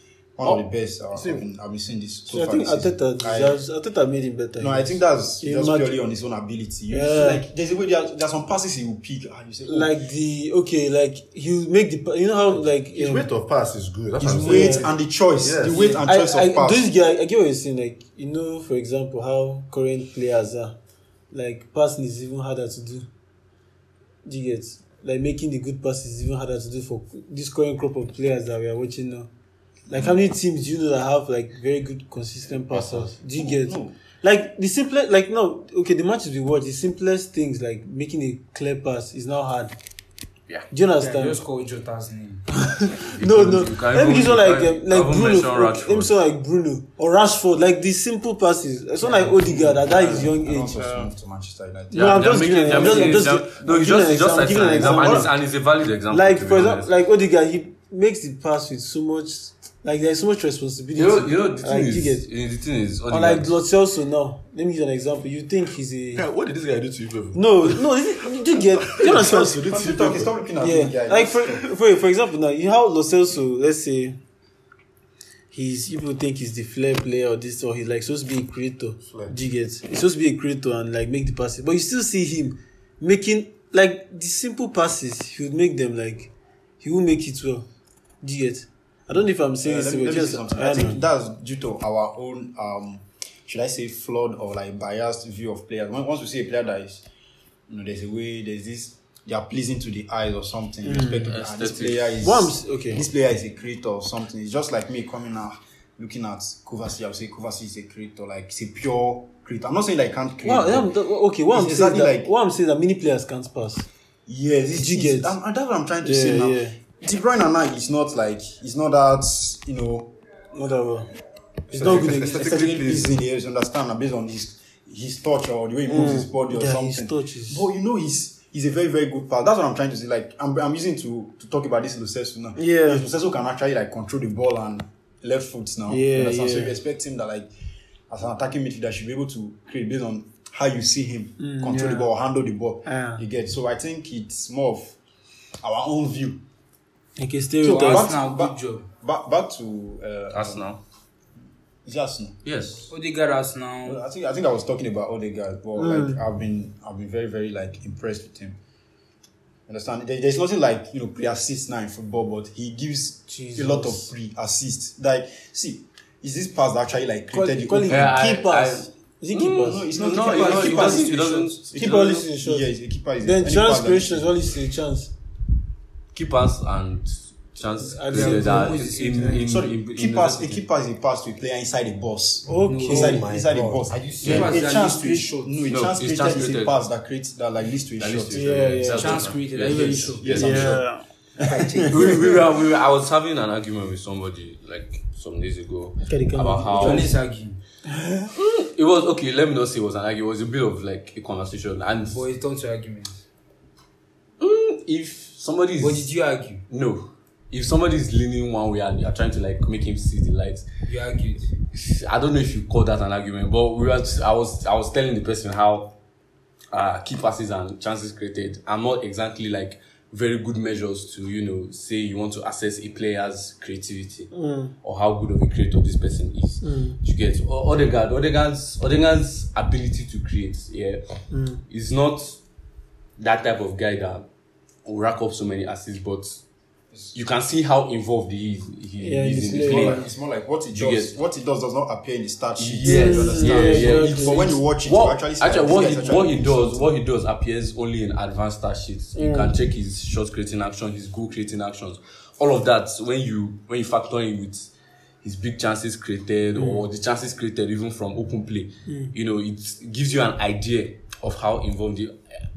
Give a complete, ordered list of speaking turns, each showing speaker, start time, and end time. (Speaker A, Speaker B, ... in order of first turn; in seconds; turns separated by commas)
Speaker A: 0.4-3.6, Speaker B: 0.4-1.4, Speaker C: 2.3-6.0, Speaker A: 4.6-9.9, Speaker C: 6.9-7.4, Speaker C: 9.6-13.3, Speaker B: 12.5-14.9, Speaker A: 14.2-16.9, Speaker C: 14.4-14.9, Speaker B: 15.4-16.0, Speaker C: 16.0-20.8, Speaker C: 21.3-23.1, Speaker C: 24.2-29.3, Speaker A: 29.9-30.1, Speaker C: 29.9-39.7, Speaker A: 32.7-33.9, Speaker C: 40.7-41.4, Speaker D: 41.0-42.5, Speaker C: 42.7-51.1, Speaker E: 43.0-46.1, Speaker A: 49.4-53.1, Speaker C: 51.9-55.3, Speaker E: 51.9-56.9, Speaker A: 54.9-55.3, Speaker C: 56.1-62.2, Speaker E: 61.0-63.6, Speaker C: 63.1-66.2, Speaker B: 66.2-67.4, Speaker C: 67.3-74.2, Speaker B: 68.9-70.2, Speaker A: 69.1-71.6, Speaker C: 75.5-86.3, Speaker B: 79.0-79.3, Speaker C: 86.8-87.7, Speaker C: 88.2-91.0, Speaker A: 89.6-97.0, Speaker A: 97.7-110.9, Speaker C: 100.8-101.2, Speaker E: 101.2-102.1, Speaker C: 102.2-103.0, Speaker C: 110.4-113.9, Speaker A: 111.5-112.3, Speaker A: 114.3-120.1, Speaker C: 114.7-115.3, Speaker C: 116.0-116.8, Speaker C: 120.5-121.1, Speaker B: 121.7-123.1, Speaker C: 121.7-123.0, Speaker A: 121.8-137.5, Speaker C: 125.9-127.7, Speaker C: 132.5-133.0, Speaker C: 135.9-136.8, Speaker A: 138.1-144.9, Speaker C: 141.4-142.1, Speaker C: 142.8-143.2, Speaker A: 145.6-146.4, Speaker C: 147.2-148.1, Speaker D: 147.6-148.8, Speaker A: 147.7-150.7, Speaker E: 150.3-150.8, Speaker A: 151.8-152.8, Speaker E: 152.4-152.8, Speaker D: 152.9-154.0, Speaker A: 153.8-158.6, Speaker C: 155.8-156.2, Speaker A: 159.7-168.1, Speaker C: 163.3-164.1, Speaker C: 167.3-169.9, Speaker E: 167.9-171.6, Speaker A: 169.6-171.2, Speaker D: 169.9-171.6, Speaker C: 171.7-172.7, Speaker A: 171.7-174.3, Speaker C: 173.2-175.1, Speaker E: 176.1-180.6, Speaker C: 177.8-178.8, Speaker D: 178.1-179.4, Speaker A: 179.4-188.5, Speaker C: 182.4-183.2, Speaker D: 182.7-183.1, Speaker B: 182.8-184.6, Speaker D: 184.2-185.5, Speaker E: 184.2-184.5, Speaker E: 185.7-186.7, Speaker E: 188.0-190.8, Speaker C: 188.3-189.3, Speaker D: 188.9-190.5, Speaker A: 189.7-190.8, Speaker C: 190.3-191.0, Speaker D: 191.4-192.4, Speaker E: 191.9-197.2, Speaker C: 196.0-197.1, Speaker D: 196.7-197.6, Speaker C: 197.9-198.3, Speaker E: 198.3-202.2, Speaker D: 202.1-203.2, Speaker E: 204.4-206.1, Speaker D: 205.8-206.6, Speaker E: 206.7-210.6, Speaker D: 210.8-211.5, Speaker E: 211.7-215.9, Speaker E: 216.7-232.4, Speaker C: 224.3-224.7, Speaker C: 226.6-227.0, Speaker C: 231.3-231.6, Speaker E: 233.2-234.2, Speaker E: 234.8-236.4, Speaker E: 237.1-240.1, Speaker C: 239.0-240.1, Speaker A: 239.6-246.8, Speaker E: 240.7-241.1, Speaker E: 242.6-254.7, Speaker C: 242.8-244.5, Speaker C: 249.1-249.6, Speaker E: 255.2-262.1, Speaker C: 258.9-259.1